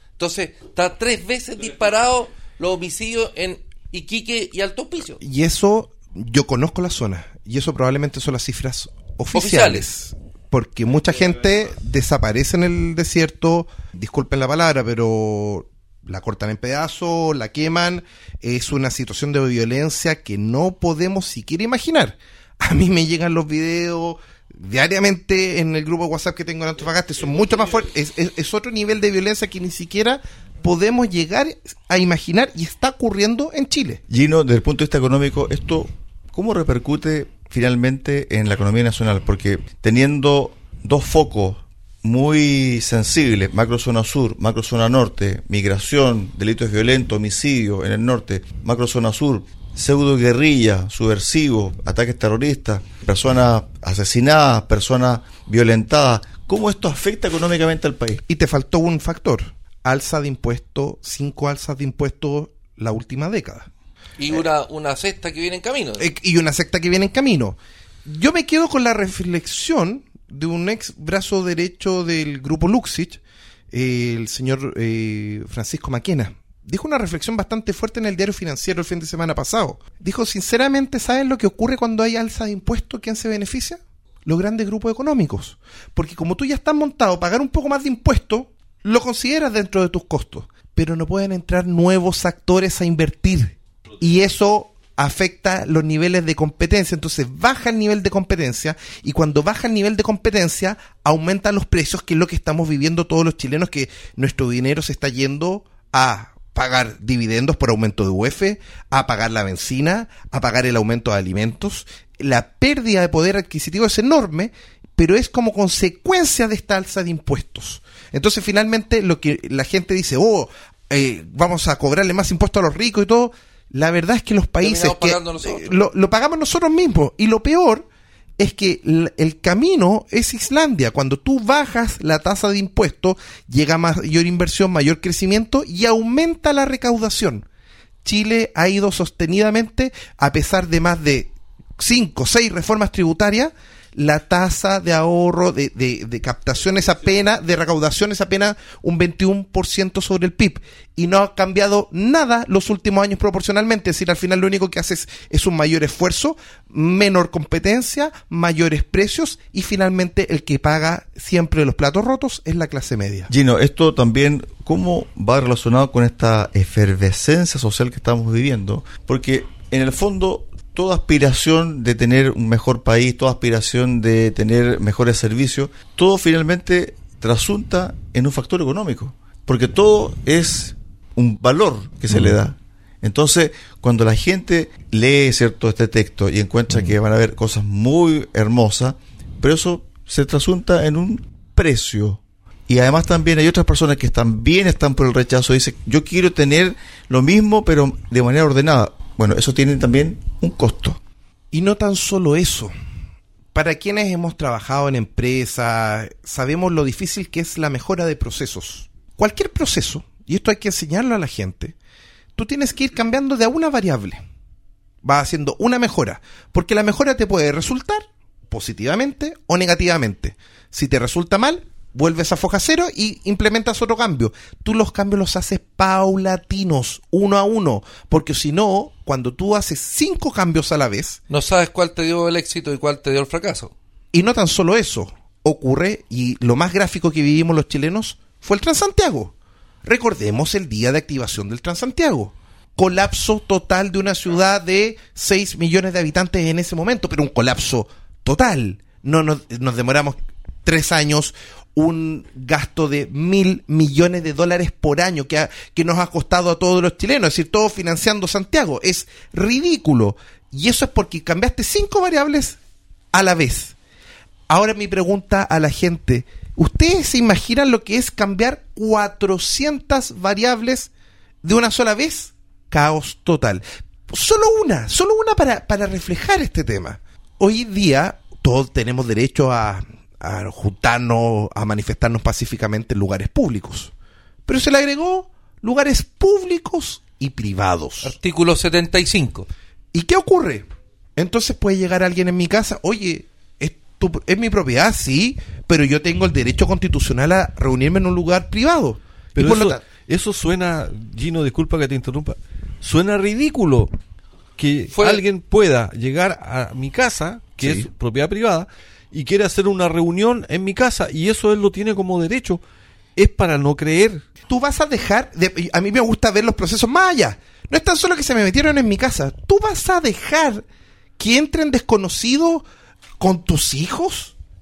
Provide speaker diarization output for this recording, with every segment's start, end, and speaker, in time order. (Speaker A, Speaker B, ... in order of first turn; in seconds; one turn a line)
Speaker A: 0.2-5.2
Speaker B: 5.2-34.0
Speaker A: 9.3-9.8
Speaker C: 34.1-58.2
Speaker B: 58.3-63.7
Speaker A: 64.2-66.1
Speaker B: 66.0-73.2
Speaker B: 73.7-127.9
Speaker A: 124.6-125.7
Speaker B: 128.4-137.4
Speaker B: 138.0-163.3
Speaker C: 163.3-201.0
Speaker B: 201.5-202.7
Speaker B: 203.5-211.7
Speaker B: 212.3-214.2
Speaker B: 215.0-231.2
Speaker A: 231.3-233.7
Speaker B: 234.1-239.3
Speaker B: 239.8-262.6
Speaker B: 263.1-263.7
Speaker B: 264.5-270.9
Speaker B: 271.4-283.9
Speaker B: 284.5-288.1
Speaker A: 288.0-289.5
Speaker B: 289.9-299.8
Speaker D: 299.3-303.9
Speaker D: 304.6-312.6
Speaker A: 304.9-305.2
Speaker D: 313.1-314.2
Speaker B: 314.5-320.6
Speaker B: 321.2-322.6
Speaker B: 323.2-324.3